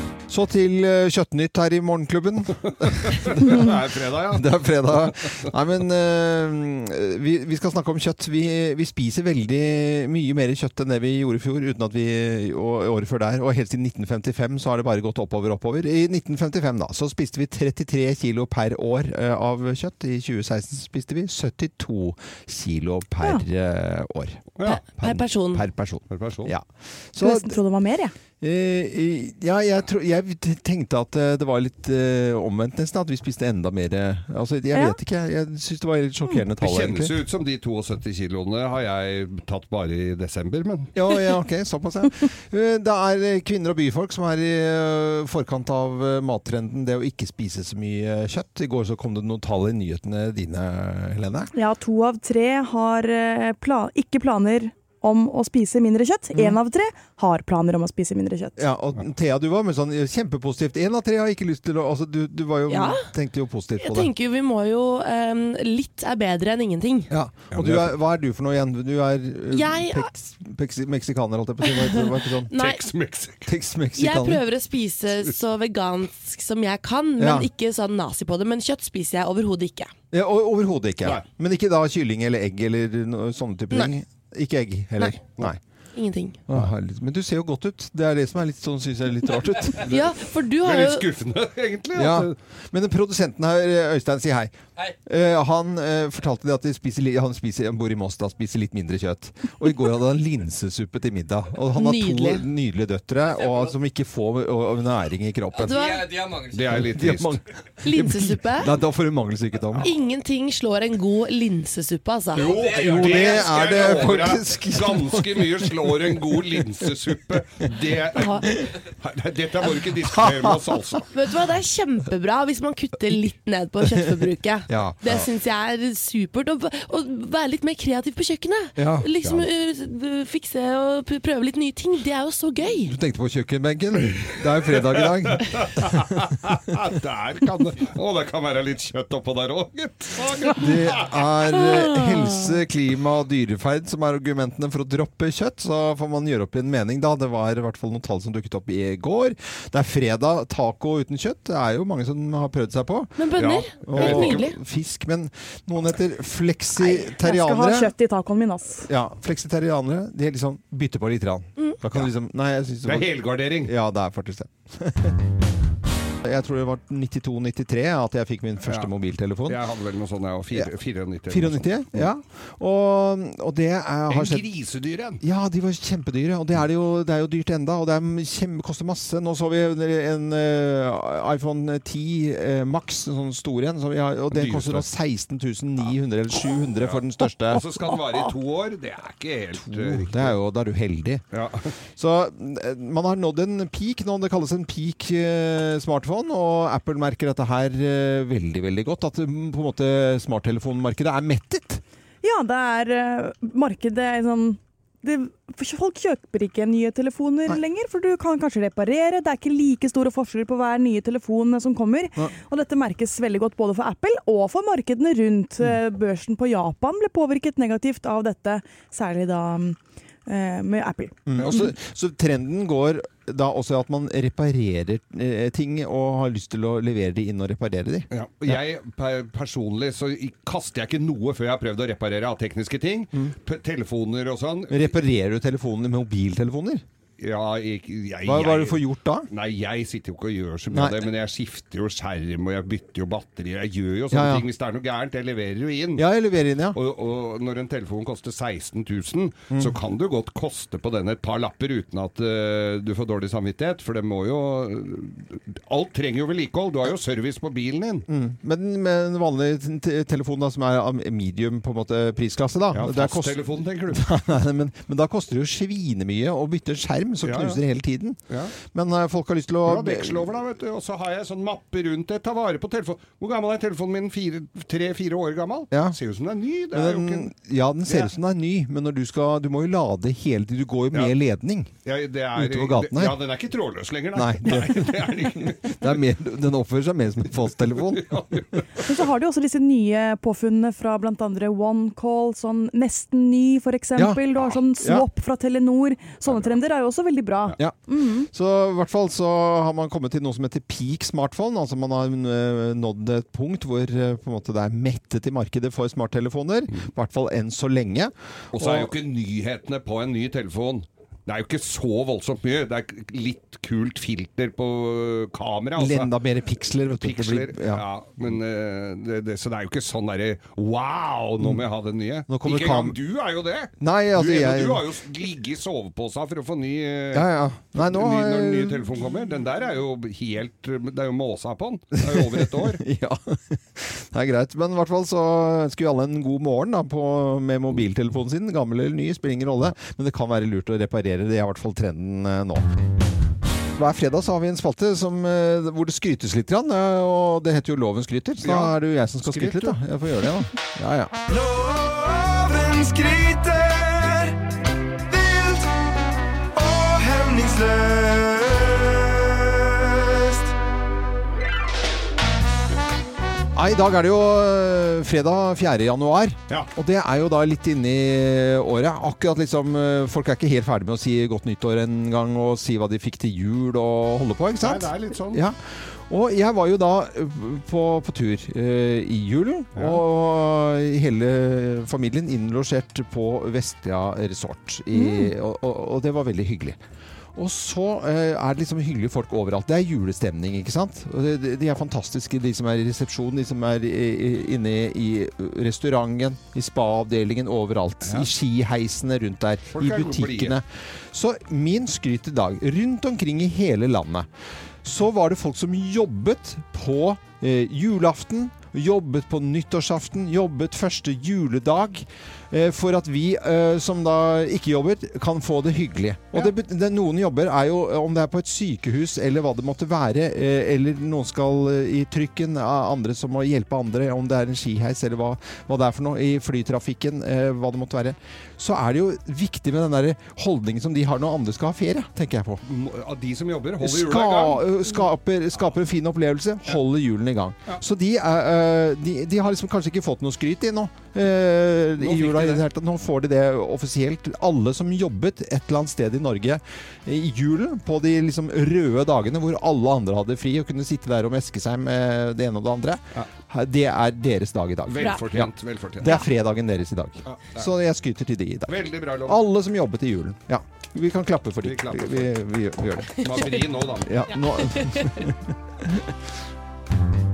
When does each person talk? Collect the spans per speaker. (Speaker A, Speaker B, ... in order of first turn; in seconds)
Speaker A: 0.3-3.8, 4.3-27.6, 28.4-37.1, 40.9-51.5, 58.6-64.1, 67.1-72.5, 73.5-74.4, 77.2-77.5, 80.1-85.6, 86.5-90.1, 91.9-94.5, 95.0-106.0, 106.7-109.9, 112.6-116.6, 120.0-121.0, 124.7-125.3, 128.8-129.1, 132.8-136.3, 140.6-153.1, 153.8-157.9, 158.9-163.1, 163.6-165.2, 166.2-169.6, 171.3-174.4, 175.2-187.8, 189.6-191.2, 192.0-201.8, 221.3-228.6, 234.7-236.8, 238.2-239.3, 240.7-241.1, 244.1-244.4, 245.9-246.8, 258.1-268.2, 268.7-270.3, 275.7-276.0, 276.7-281.7, 282.4-283.1, 284.1-288.1, 293.9-294.2, 294.8-295.1, 298.3-308.9, 315.8-317.8, 322.3-323.0, 323.8-324.8, 327.1-328.9, 332.0-342.6, 343.8-351.1, 363.5-375.6, 376.1-386.8, 387.4-404.3, 404.8-432.6, 433.8-466.0
Speaker B: 2.7-5.4, 26.1-26.5, 36.6-40.9, 67.5-67.9, 72.5-73.5, 90.6-92.3, 106.3-107.4, 112.3-121.1, 134.1-141.3, 153.4-154.4, 162.8-163.7, 169.5-172.1, 174.1-175.2, 184.3-184.8, 186.8-190.3, 191.3-191.7, 228.1-234.9, 237.2-246.0, 246.7-258.1, 262.7-264.1, 267.2-267.6, 268.3-268.6, 269.6-277.3, 281.8-285.9, 287.7-288.6, 308.5-316.1, 317.0-332.8, 348.4-349.8, 374.6-375.4, 379.7-380.0, 399.7-400.6, 432.6-435.0, 442.0-442.6, 454.9-456.2, 457.3-457.7, 458.7-459.4, 461.6-462.3, 463.2-464.1
Speaker C: 24.6-25.6, 62.7-63.1, 63.8-67.1, 69.5-70.1, 72.5-72.8, 74.0-79.9, 85.9-86.4, 89.8-91.0, 101.7-102.5, 105.6-106.2, 107.8-108.7, 109.8-112.5, 118.2-118.5, 121.1-132.9, 153.2-154.6
Speaker D: 27.2-28.1, 51.5-58.6, 156.8-158.9, 202.2-221.7, 288.8-298.3, 385.0-385.3
Speaker E: 351.3-354.5, 355.1-355.7, 356.5-360.5